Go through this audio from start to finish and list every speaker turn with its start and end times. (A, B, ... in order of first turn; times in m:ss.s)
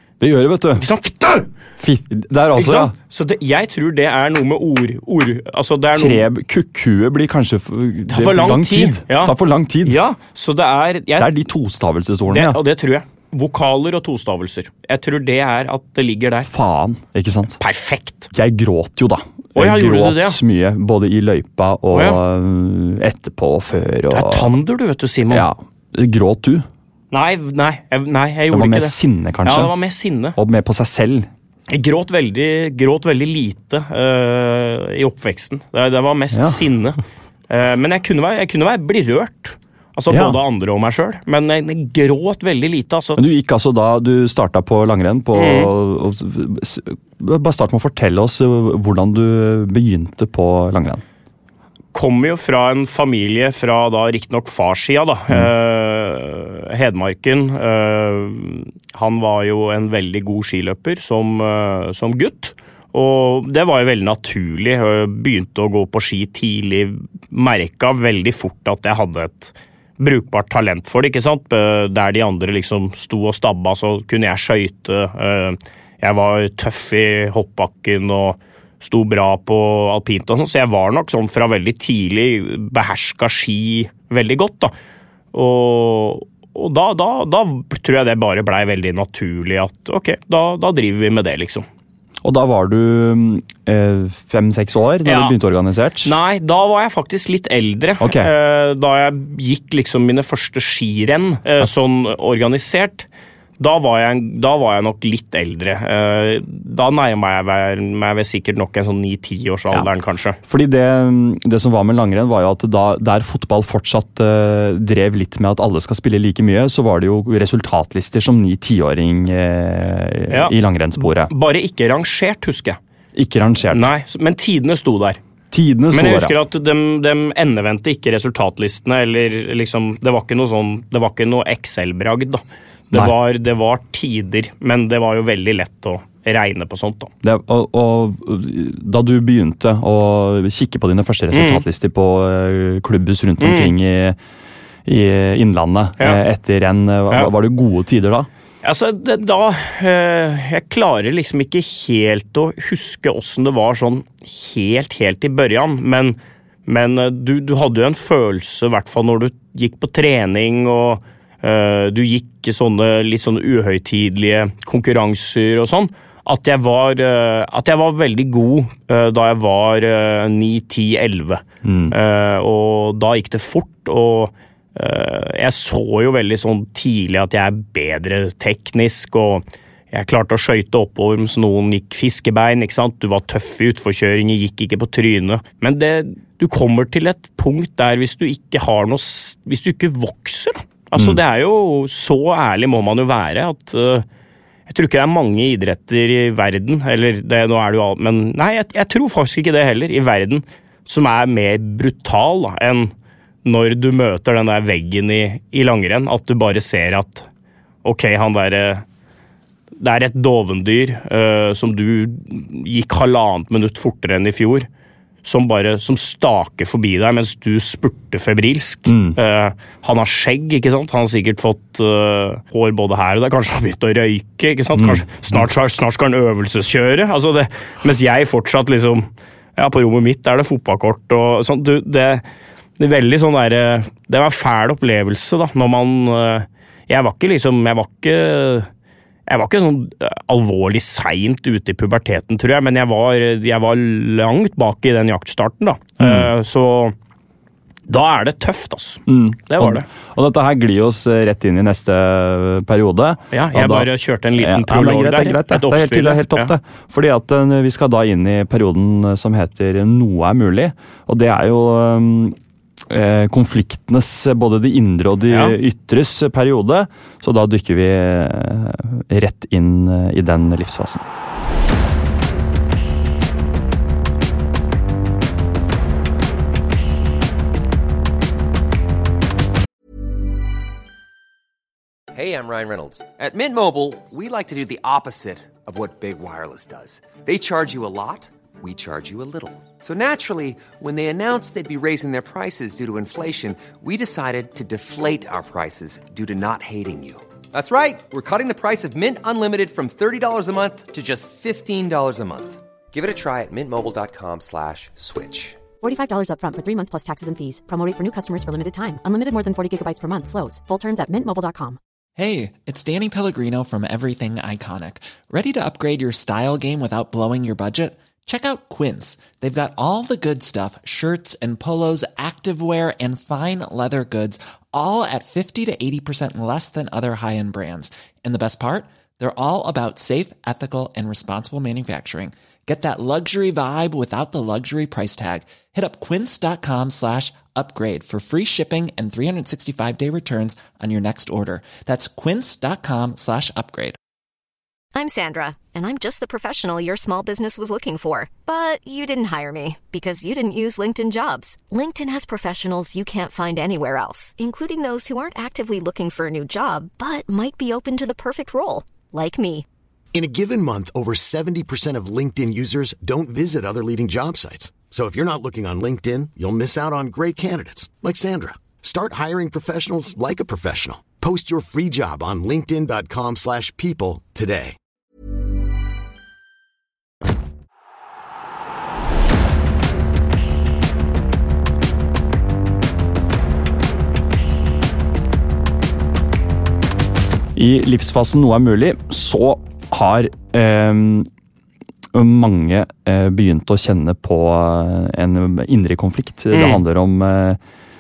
0:00.2-0:00.8 A
0:00.8-0:01.5 B
0:01.8-0:02.9 A
0:02.5-0:06.2 B
0:05.9-0:10.0 A
0:08.1-0:09.3 B
0:09.8-0:11.3 B
0:11.2-0:12.6 A
0:12.3-0:16.5 B
0:16.5-0:17.6 A
0:17.6-0:18.3 B
0:18.3-0:24.5 A
0:19.5-0:20.4 B
0:21.9-0:22.2 B
0:24.1-0:25.4 B
0:25.3-0:26.7 A
0:27.1-0:30.4 B
0:28.5-0:29.8 A
0:30.3-0:31.3 A
0:31.7-0:43.2 B
0:36.3-0:36.6 A
0:40.1-0:40.4 A
0:43.2-0:51.0 A
0:45.3-0:45.7 B
0:51.9-1:24.7 B
1:25.3-1:31.6 B
1:32.2-1:36.1 A
1:35.0-1:35.4 B
1:36.0-1:43.1 B
1:38.0-1:38.3 A
1:43.6-1:50.4 B
1:50.4-2:01.3 A
2:00.3-2:02.8 B
2:03.1-2:03.9 A
2:03.7-2:05.2 B
2:05.5-2:06.3 A
2:05.9-2:17.1 B
2:12.9-2:13.2 A
2:17.2-2:24.2 A
2:21.3-2:21.6 B
2:23.4-2:23.7 B
2:24.8-2:28.3 A
2:28.6-3:14.0 B
2:51.6-2:51.9 A
3:14.7-3:22.9 B
3:23.4-3:27.3 B
3:27.8-3:28.8 B
3:29.8-3:34.7 B
3:35.2-3:52.2 B
3:38.9-3:39.2 A
3:44.7-3:45.4 A
3:52.8-3:58.7 B
3:59.3-4:06.9 B
4:06.0-4:06.3 A
4:07.9-4:09.9 B
4:09.1-4:22.4 A
4:13.3-4:16.5 B
4:22.9-4:31.1 A
4:25.3-4:25.6 B
4:42.1-5:05.6 C
5:05.8-5:11.8 D
5:12.2-5:44.0 E
5:44.9-5:59.6 F
6:00.1-6:14.7 G
6:27.5-6:31.3 A
6:32.1-6:37.6 A
6:36.5-6:36.8 B